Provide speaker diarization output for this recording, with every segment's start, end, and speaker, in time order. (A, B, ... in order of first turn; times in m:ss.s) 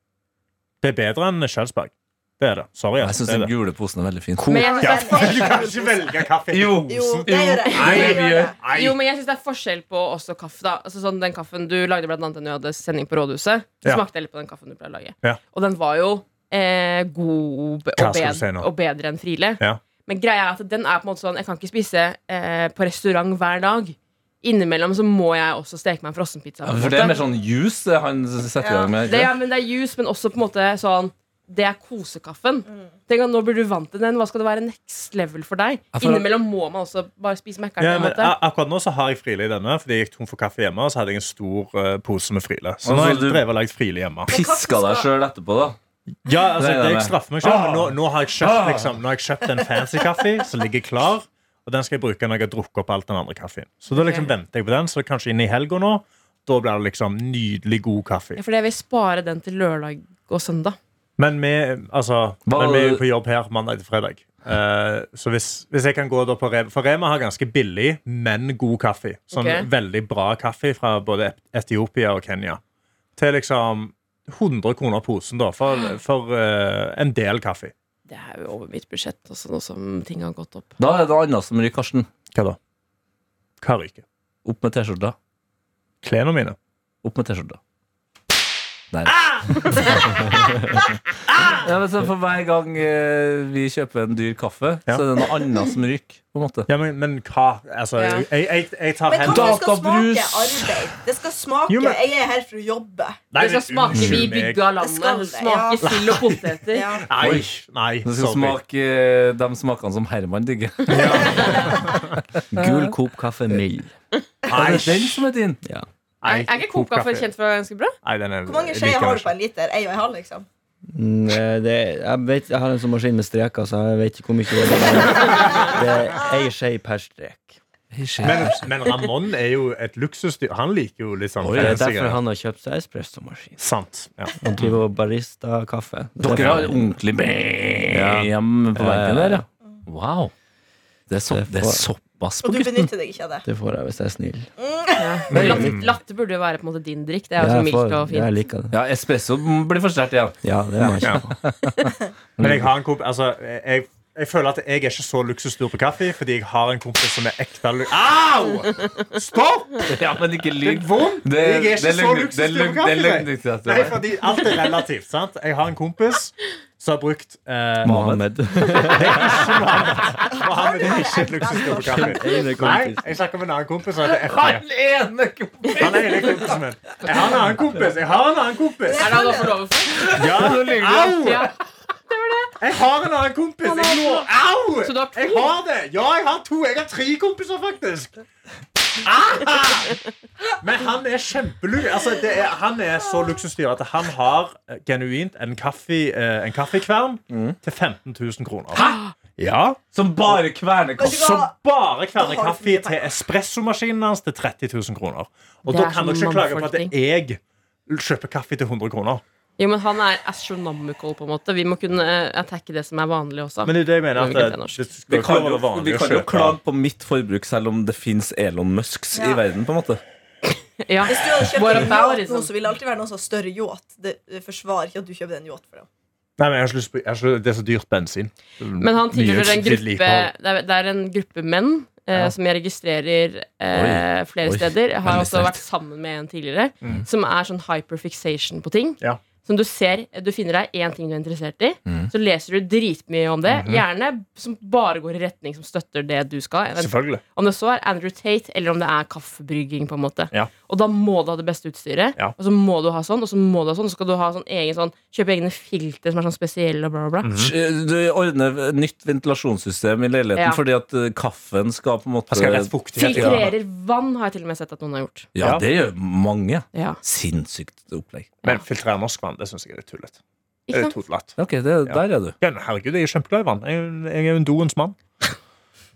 0:00.8-0:03.5 A
0:03.0-0:04.8 B
0:04.4-0:05.5 C
0:04.5-0:06.2 D
0:04.8-0:09.0 A
0:06.5-0:08.5 B
0:06.9-0:08.6 D
0:08.6-0:27.2 C
0:18.0-0:18.7 A
0:26.6-0:29.3 B
0:28.6-0:29.0 D
0:29.0-0:38.4 C
0:36.0-0:36.3 B
0:37.8-0:44.3 A
0:42.8-0:43.4 B
0:44.3-0:45.1 D
0:44.3-0:45.8 B
0:46.2-0:58.4 A
0:46.6-0:49.0 B
0:53.9-0:54.3 C
0:58.4-1:00.8 C
1:01.2-1:12.6 A
1:02.5-1:03.0 B
1:09.3-1:09.7 C
1:13.2-1:17.7 A
1:18.1-1:20.7 C
1:20.8-1:22.1 B
1:23.6-1:24.0 A
1:24.4-1:25.2 B
1:26.0-1:26.6 A
1:27.0-1:27.6 B
1:28.9-1:30.2 B
1:29.3-1:30.2 A
1:31.3-1:31.7 A
1:31.6-1:36.7 B
1:36.7-1:39.6 A
1:38.0-1:38.3 C
1:39.1-1:43.2 D
1:39.2-1:40.8 B
1:41.7-1:42.0 A
1:43.3-1:44.7 A
1:43.4-1:46.9 C
1:43.9-1:44.2 E
1:44.8-1:45.9 D
1:45.8-1:48.6 A
1:46.7-1:47.1 D
1:47.2-1:47.5 B
1:48.0-1:52.0 B
1:50.9-1:52.1 A
1:51.3-1:51.8 D
1:52.5-1:53.9 E
1:54.5-1:55.2 A
1:54.5-1:55.6 B
1:56.2-1:57.3 A
1:56.2-1:57.9 C
1:58.0-1:59.3 A
1:58.5-2:00.5 D
2:00.9-2:07.6 E
2:07.9-2:08.7 B
2:08.2-2:12.2 A
2:11.4-2:11.9 B
2:11.6-2:13.6 E
2:13.6-2:14.3 A
2:14.4-2:17.0 E
2:16.2-2:20.3 B
2:17.9-2:19.5 E
2:21.1-2:22.9 B
2:21.3-2:21.8 E
2:22.4-2:23.5 D
2:23.4-2:24.5 E
2:24.6-2:25.2 D
2:25.0-2:28.3 C
2:25.3-2:25.8 E
2:25.4-2:25.9 A
2:27.4-2:28.8 E
2:28.7-2:32.7 B
2:30.4-2:31.4 E
2:32.4-2:40.0 A
2:39.9-2:44.1 B
2:40.6-2:48.2 A
2:47.8-2:49.4 E
2:47.8-2:48.2 B
2:48.8-2:54.7 A
2:50.3-2:52.4 D
2:52.0-2:53.0 E
2:54.1-2:56.5 B
2:55.8-2:59.2 A
2:58.8-3:00.1 D
2:58.9-3:00.3 C
3:00.1-3:01.5 A
3:00.1-3:01.5 B
3:01.1-3:01.5 C
3:02.1-3:02.6 C
3:02.6-3:08.2 A
3:03.6-3:04.3 C
3:04.8-3:05.5 C
3:09.0-3:10.0 A
3:10.6-3:19.8 A
3:17.3-3:17.6 B
3:18.7-3:19.0 B
3:18.8-3:19.1 C
3:19.9-3:21.4 B
3:21.0-3:21.6 D
3:21.0-3:29.2 A
3:22.2-3:23.1 D
3:25.7-3:26.9 C
3:29.6-3:34.8 C
3:33.6-3:36.6 A
3:35.1-3:40.0 B
3:39.1-3:39.4 D
3:40.8-3:42.5 C
3:41.0-3:45.9 D
3:46.4-3:50.3 A
3:48.8-4:17.3 C
3:53.7-3:55.6 B
4:01.9-4:02.1 B
4:03.5-4:03.8 A
4:06.8-4:07.2 A
4:17.2-4:17.5 A
4:17.4-4:23.5 B
4:22.3-4:23.6 A
4:23.0-4:25.3 C
4:25.4-4:28.4 B
4:25.4-4:25.6 A
4:26.7-4:27.0 C
4:28.4-4:30.2 A
4:30.7-4:30.9 C
4:30.7-4:35.0 A
4:31.4-4:32.4 B